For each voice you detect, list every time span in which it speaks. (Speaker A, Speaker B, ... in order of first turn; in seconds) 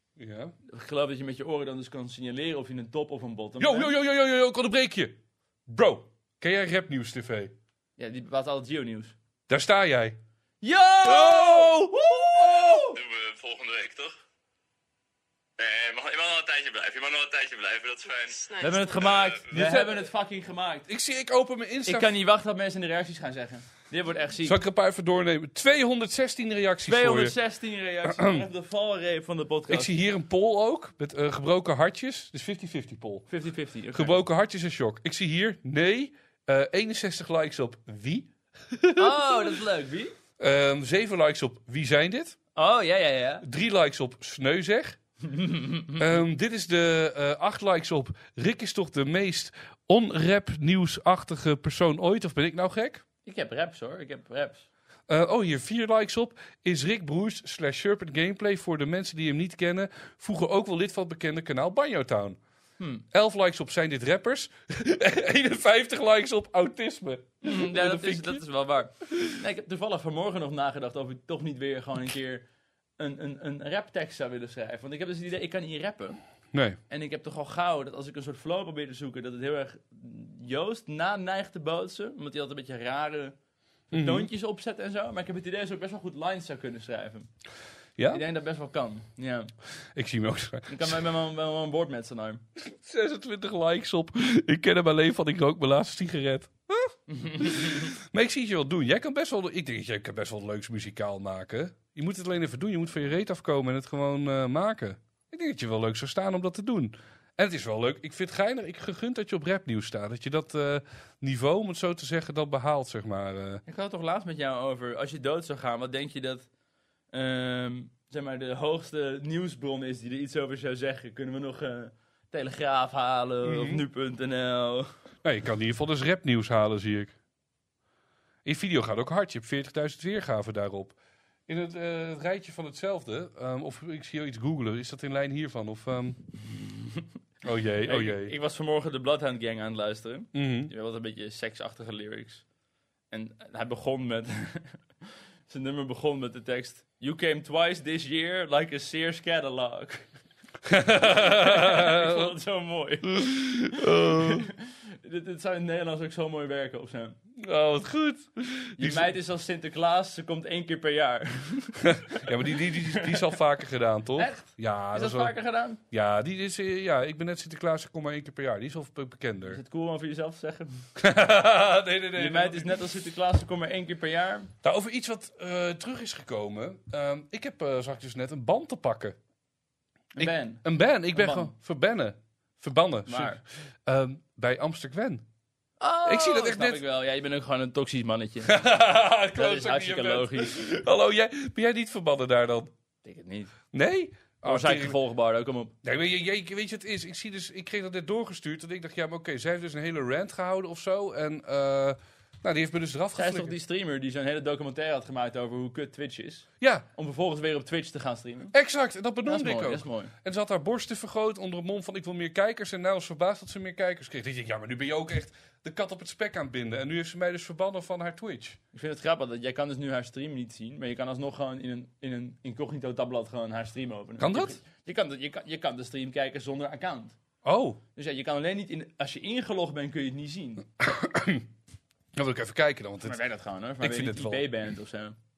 Speaker A: 0.2-0.5, 3.6-7.5, 9.5-10.2, 11.0-12.9, 19.5-20.1, 20.9-22.2, 24.4-27.4, 28.1-28.4, 29.7-33.3, 33.9-39.5, 40.4-42.4, 43.4-45.0, 46.0-53.0, 55.1-62.4, 63.1-68.5, 69.0-69.4, 76.5-76.8, 83.9-84.3, 88.0-88.2, 89.9-91.0, 92.6-113.6, 123.4-123.8, 125.2-127.2, 128.4-136.2, 137.4-138.3, 140.3-140.7, 150.7-152.3, 153.1-154.5, 157.4-159.1, 161.8-165.3, 165.9-169.6, 171.0-172.8, 174.6-179.2, 180.2-185.2, 186.1-186.8, 188.5-192.7, 193.7-195.0, 195.8-203.6, 206.6-206.9, 208.5-218.6, 224.2-224.6, 227.4-227.8, 230.8-231.5, 232.2-233.2, 233.8-234.5
Speaker B: 0.7-3.9, 8.0-9.2, 10.6-13.0, 18.5-20.9, 21.9-24.6, 26.9-29.9, 33.3-34.2, 39.0-40.1, 42.6-43.5, 45.2-46.2, 53.3-54.7, 67.4-72.5, 73.0-76.2, 76.9-83.3, 83.9-87.3, 88.1-89.5, 90.7-92.4, 97.1-97.9, 113.7-116.5, 117.1-124.9, 136.6-137.0, 137.8-142.4, 143.1-144.8, 145.5-150.1, 151.0-157.2, 158.8-163.3, 164.2-165.8, 169.5-170.9, 172.2-174.5, 180.2-181.5, 183.1-183.4, 185.8-188.6, 189.3-190.6, 193.0-193.6, 194.4-195.7, 203.2-208.5, 209.2-210.1, 218.7-227.2, 227.9-230.7, 233.0-235.2
Speaker C: 13.1-14.1, 15.6-18.5